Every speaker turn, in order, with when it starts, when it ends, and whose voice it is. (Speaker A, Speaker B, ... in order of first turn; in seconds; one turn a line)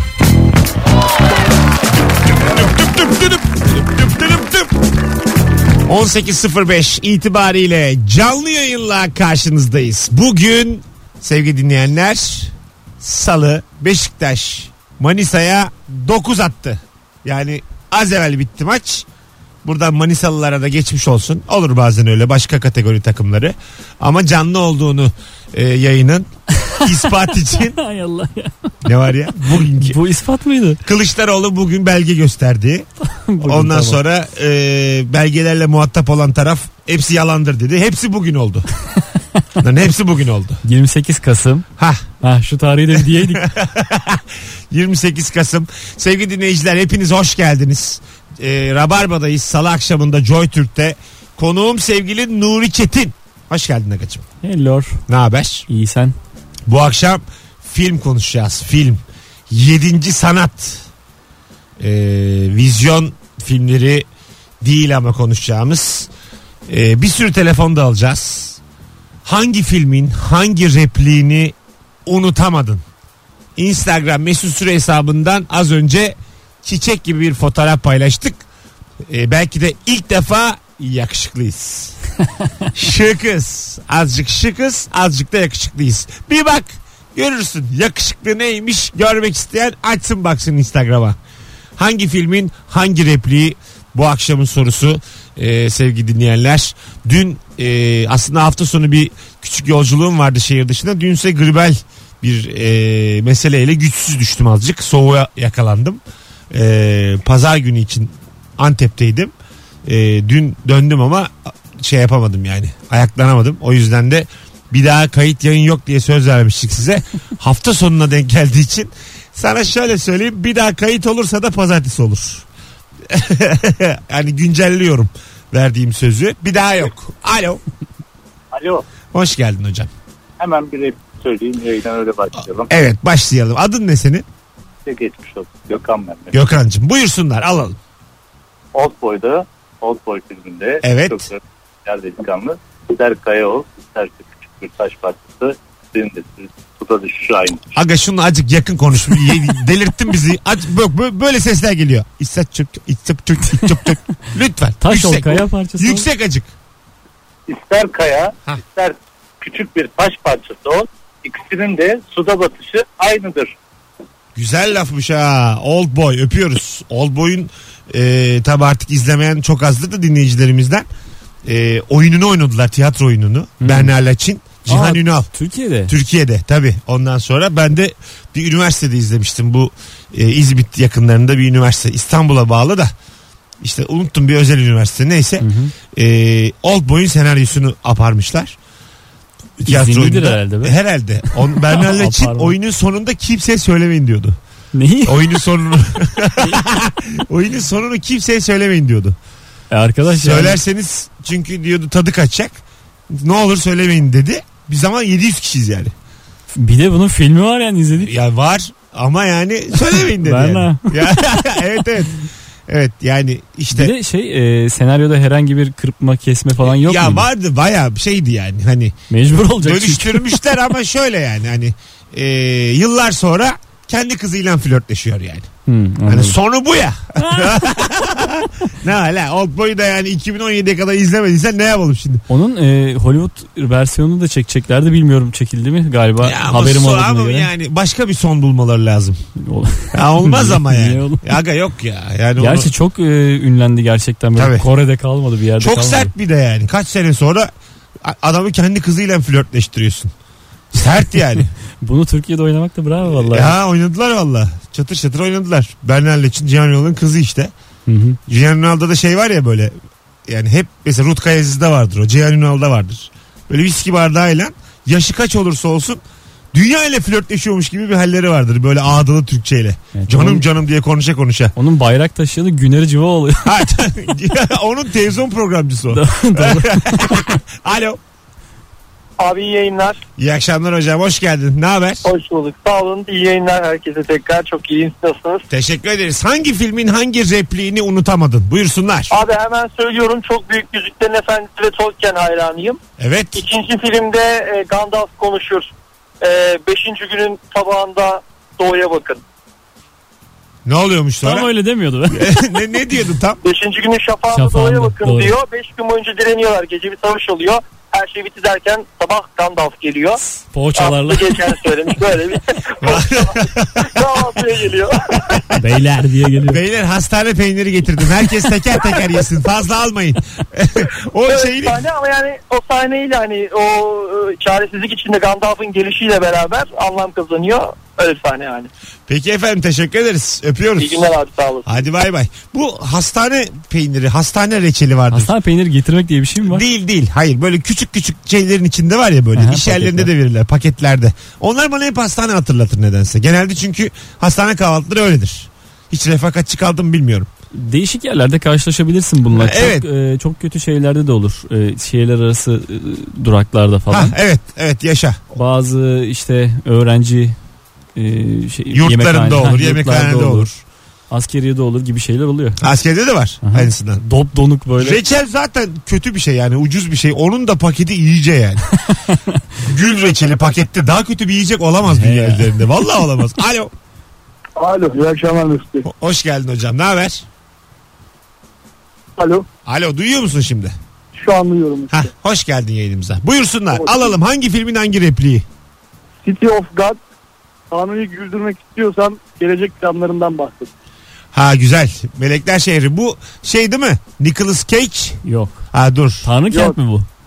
Speaker A: 2.4-4.7
Speaker A: 5.8-19.0
Speaker A: 19.6-26.3
Speaker A: 26.8-27.8
Speaker B: 27.8-28.7
Speaker A: 28.8-30.0
Speaker B: 29.5-30.8
Speaker A: 30.8-32.9
Speaker B: 33.0-34.0
Speaker A: 33.4-38.7
Speaker A: 39.6-40.6
Speaker B: 40.6-41.6
Speaker A: 41.8-42.1
Speaker B: 42.2-43.4
Speaker A: 43.1-54.2
Speaker B: 54.4-55.0
Speaker A: 55.1-55.7
Speaker B: 55.7-56.1
Speaker A: 56.7-60.8
Speaker A: 61.8-64.0
Speaker A: 64.6-66.1
Speaker A: 66.7-68.6
Speaker A: 69.2-71.5
Speaker A: 72.0-72.8
Speaker A: 73.5-78.4
Speaker A: 79.0-82.0
Speaker A: 82.7-91.2
Speaker A: 91.8-109.3
Speaker A: 109.8-122.4
Speaker A: 123.1-127.6
Speaker C: 128.5-128.8
Speaker A: 129.1-129.9
Speaker C: 130.4-132.7
Speaker A: 132.7-134.2
Speaker C: 134.8-136.3
Speaker A: 136.3-137.8
Speaker C: 138.7-147.7
Speaker A: 140.8-141.3
Speaker A: 147.7-156.5
Speaker B: 153.5-153.8
Speaker B: 154.8-156.1
Speaker C: 157.5-163.6
Speaker A: 164.3-170.8
Speaker A: 171.4-175.3
Speaker B: 173.6-173.9
Speaker B: 174.7-175.9
Speaker A: 175.9-182.9
Speaker A: 183.6-188.6
Speaker B: 185.4-185.7
Speaker A: 189.6-194.4
Speaker B: 189.6-190.8
Speaker B: 191.3-192.6
Speaker B: 194.7-195.4
Speaker A: 195.1-199.2
Speaker B: 199.7-200.6
Speaker A: 200.1-205.9
Speaker B: 206.5-208.1
Speaker A: 208.0-212.2
Speaker B: 210.2-211.6
Speaker A: 212.7-213.9
Speaker B: 213.7-217.3
Speaker A: 216.6-218.9
Speaker B: 219.1-220.4
Speaker A: 219.6-225.5
Speaker B: 225.7-226.3
Speaker A: 226.1-232.2
Speaker B: 227.2-227.5
Speaker B: 232.3-237.5
Speaker A: 236.2-239.2
Speaker B: 239.4-241.2
Speaker A: 239.9-242.7
Speaker B: 242.4-246.1
Speaker A: 244.3-244.6
Speaker A: 245.6-247.5
Speaker A: 248.0-250.1
Speaker A: 250.7-251.5
Speaker B: 251.8-253.5
Speaker A: 253.0-257.5
Speaker B: 257.9-258.2
Speaker A: 258.3-259.7
Speaker A: 260.3-266.0
Speaker A: 266.5-271.5
Speaker B: 269.9-270.4
Speaker B: 271.5-273.5
Speaker A: 273.4-278.0
Speaker B: 275.9-277.4
Speaker D: 279.2-280.0
Speaker A: 280.2-282.1
Speaker D: 282.0-285.4
Speaker A: 285.5-289.1
Speaker D: 289.1-292.8
Speaker A: 293.0-293.4
Speaker D: 293.3-295.7
Speaker D: 296.2-299.2
Speaker A: 300.6-301.5
Speaker B: 301.2-302.4
Speaker A: 302.1-303.4
Speaker D: 303.4-310.2
Speaker B: 304.3-305.3
Speaker B: 310.4-311.4
Speaker D: 310.8-315.2
Speaker A: 312.8-314.2
Speaker B: 315.6-316.6
Speaker A: 316.5-321.8
Speaker D: 321.2-328.7
Speaker A: 329.1-331.0
Speaker D: 330.8-331.8
Speaker A: 331.6-335.3
Speaker B: 335.1-336.6
Speaker A: 336.4-347.3
Speaker B: 339.3-340.1
Speaker B: 347.5-354.1
Speaker A: 349.3-349.9
Speaker A: 353.9-355.3
Speaker B: 355.4-357.4
Speaker B: 357.9-360.5
Speaker A: 358.7-360.6
Speaker B: 361.1-362.6
Speaker A: 362.6-364.0
Speaker B: 363.4-365.0
Speaker A: 364.8-368.6
Speaker B: 368.9-369.4
Speaker A: 369.6-373.7
Speaker B: 371.9-372.6
Speaker E: 374.6-375.9
Speaker A: 375.8-377.2
Speaker E: 379.2-379.4
Speaker A: 379.6-380.7
Speaker E: 381.1-382.1
Speaker A: 381.9-385.4
Speaker E: 383.7-384.1
Speaker E: 386.2-387.0
Speaker E: 387.7-390.7
Speaker A: 391.3-396.3
Speaker B: 395.2-395.6
Speaker B: 396.2-397.1
Speaker E: 396.5-396.8